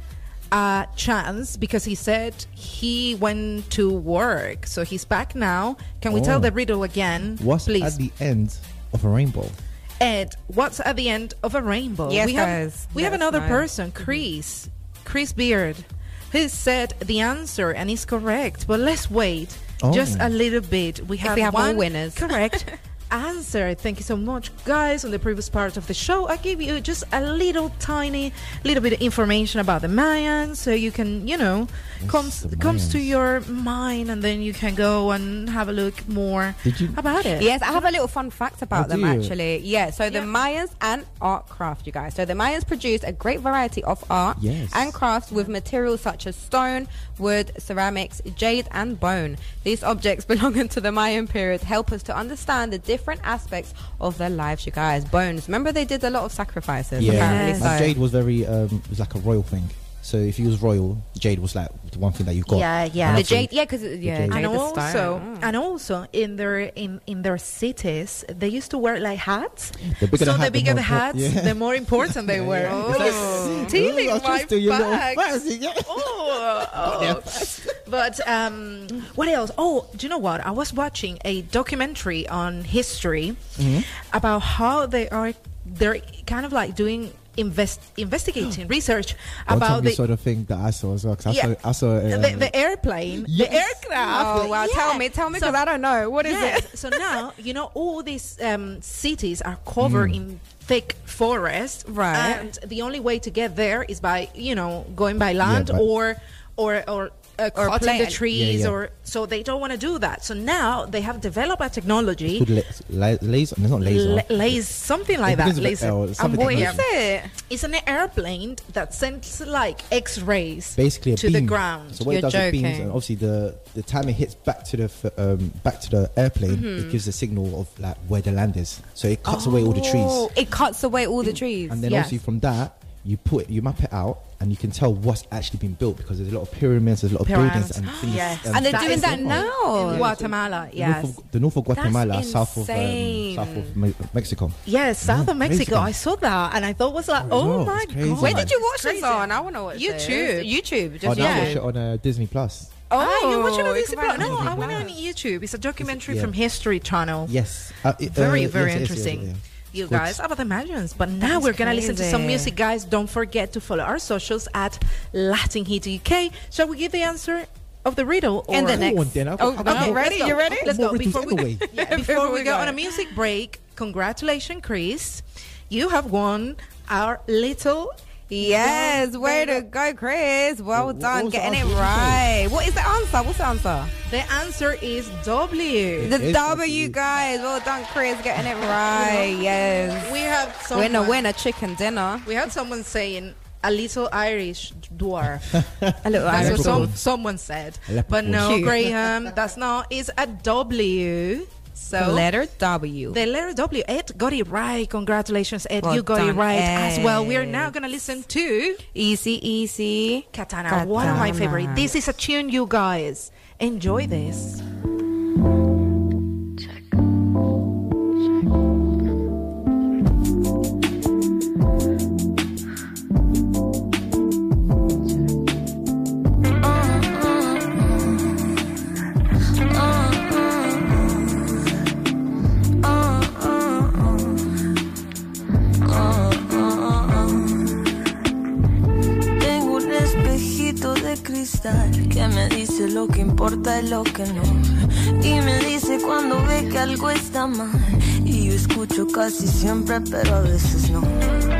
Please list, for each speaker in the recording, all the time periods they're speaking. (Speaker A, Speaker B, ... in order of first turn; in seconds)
Speaker A: 0.5-8.0, 10.0-37.9, 57.0-57.8, 62.5-63.3, 64.3-75.3, 75.9-90.0, 91.3-91.5, 92.1-95.6, 96.2-112.5, 113.8-116.8, 117.5-122.1, 131.8-132.2, 137.2-141.2, 141.8-142.2, 144.7-150.5, 151.2-151.6, 152.9-157.3, 158.0-179.6, 184.1-186.2, 188.9-189.4, 190.0-191.2, 192.2-195.6, 196.3-202.3, 203.1-208.8, 210.3-214.6
Speaker B: 6.1-6.5, 7.4-9.6, 19.8-20.3, 32.0-33.1, 36.6-37.0, 38.7-39.4, 44.4-45.0, 57.0-64.5, 69.9-77.7, 83.6-83.9, 89.5-92.5, 93.2-93.8, 99.8-100.2, 105.4-105.9, 108.3-108.8, 112.3-114.7, 115.2-116.8, 120.8-130.3, 131.7-145.9, 147.2-148.5, 151.0-152.8, 154.2-154.9, 155.8-156.3, 157.3-160.2, 168.6-171.7, 180.7-182.3, 186.0-187.0, 195.5-197.0, 197.9-198.9
Speaker C: 12.1-14.2, 21.2-22.7, 37.4-58.0, 63.1-65.5, 72.7-73.8, 94.0-97.1, 101.9-102.5, 107.6-108.2, 116.2-117.3, 122.1-123.0, 126.5-127.0, 129.3-132.0, 137.9-140.1, 141.8-143.7, 148.2-151.6, 152.9-154.9, 161.2-162.5, 168.5-170.7, 171.7-172.8, 178.3-183.9, 186.1-190.1, 190.7-192.4, 196.0-196.9, 198.3-198.9, 201.9-203.2, 205.8-207.7, 208.9-211.9
Speaker D: 226.6-227.9, 229.7-231.3, 232.8-234.3, 235.8-237.6, 239.4-251.2